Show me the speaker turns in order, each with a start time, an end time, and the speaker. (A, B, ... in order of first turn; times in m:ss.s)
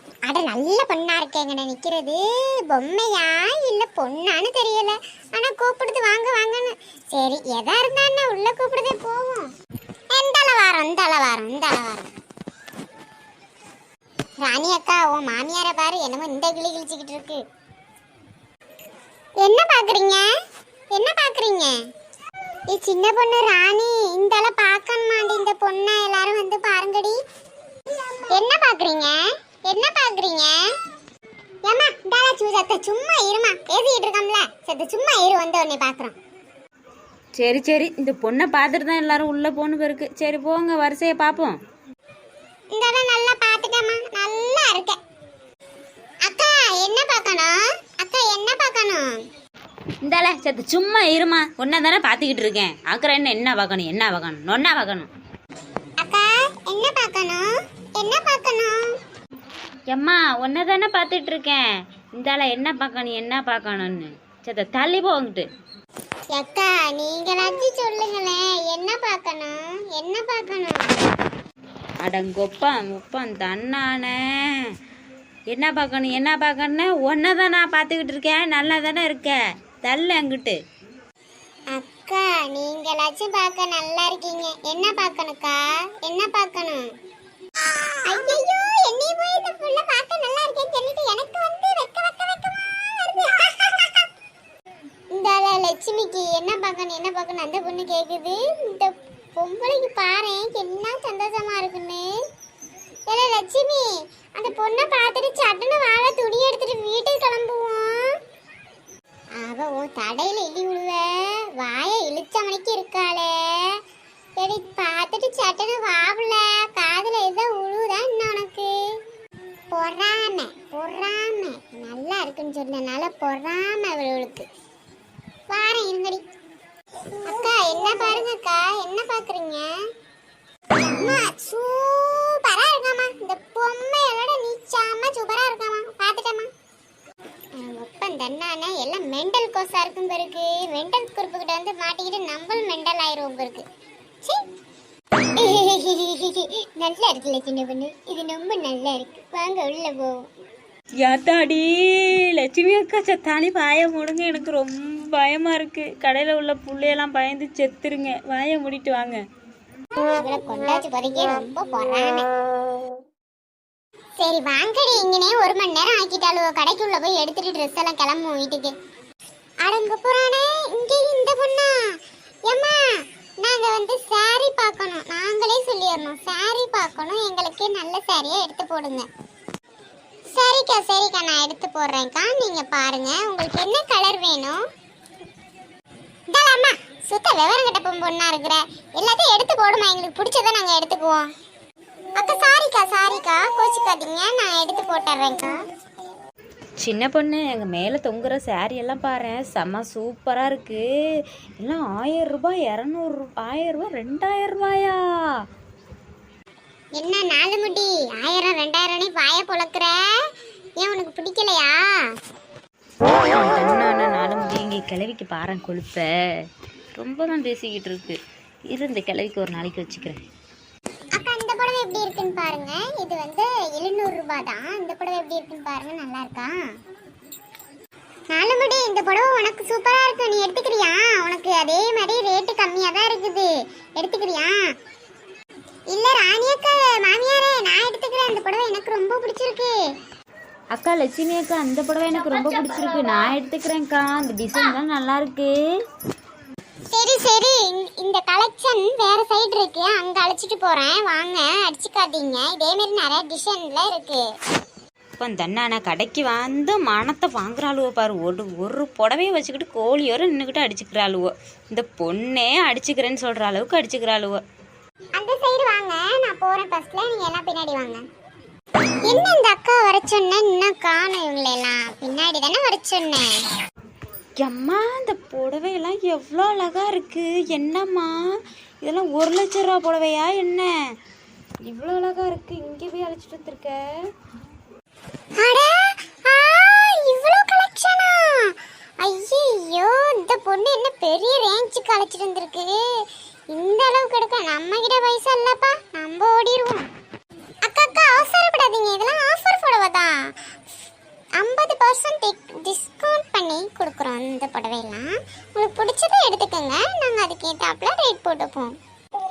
0:00.3-0:09.5 A
0:10.1-0:12.1 A
0:14.4-0:17.4 A
0:19.4-0:20.3 A
0:20.9-0:21.8 A
0:22.7-0:27.2 A
0:28.3-0:30.6 A
0:31.6-0:36.2 A
0:37.4-0:41.6 B
0:42.7-0:45.0 A
0:46.2-0:49.2 A
0:50.0-0:55.1 B
0:56.0-0:57.4 A
0:58.0-0:58.8 A
0:59.9-1:05.5 B
1:06.3-1:10.9 A
1:12.0-1:14.2 B
1:15.5-1:20.6 B
1:21.7-1:26.9 A
1:28.0-1:34.0 A
1:35.1-1:42.1 A
1:43.1-1:48.0 A
1:49.4-1:53.8 A
1:54.4-1:58.7 A
1:59.7-2:04.4 A
2:05.5-2:06.2 A
2:07.2-2:09.7 A
2:10.8-2:16.5 A
2:17.6-2:23.6 A
2:25.4-2:30.3 A
2:31.0-2:39.2 B
2:40.0-2:42.3 A
2:44.2-2:48.7 A
2:49.6-2:51.7 A
2:52.5-2:52.9 A
2:53.4-2:59.1 A
3:00.3-3:04.6 A
3:06.3-3:11.3 A
3:12.2-3:15.6 A
3:16.8-3:20.8 B
3:21.6-3:25.0 B
3:27.0-3:30.0 A
3:30.8-3:31.8 A
3:33.1-3:36.1 B
3:37.0-3:38.2 B
3:38.7-3:40.2 B
3:41.2-3:46.6 A
3:48.3-3:54.6 A
3:55.9-3:59.7 A
4:00.7-4:05.5 B
4:06.9-4:14.2 A
4:15.2-4:24.4 B
4:25.2-4:28.0 A
4:29.1-4:33.4 A
4:34.4-4:38.1 B
4:38.8-4:40.7 B
4:41.7-4:43.8 B
4:45.4-4:52.8 A
4:53.5-4:56.9 A
4:57.6-5:00.2 A
5:01.4-5:08.7 A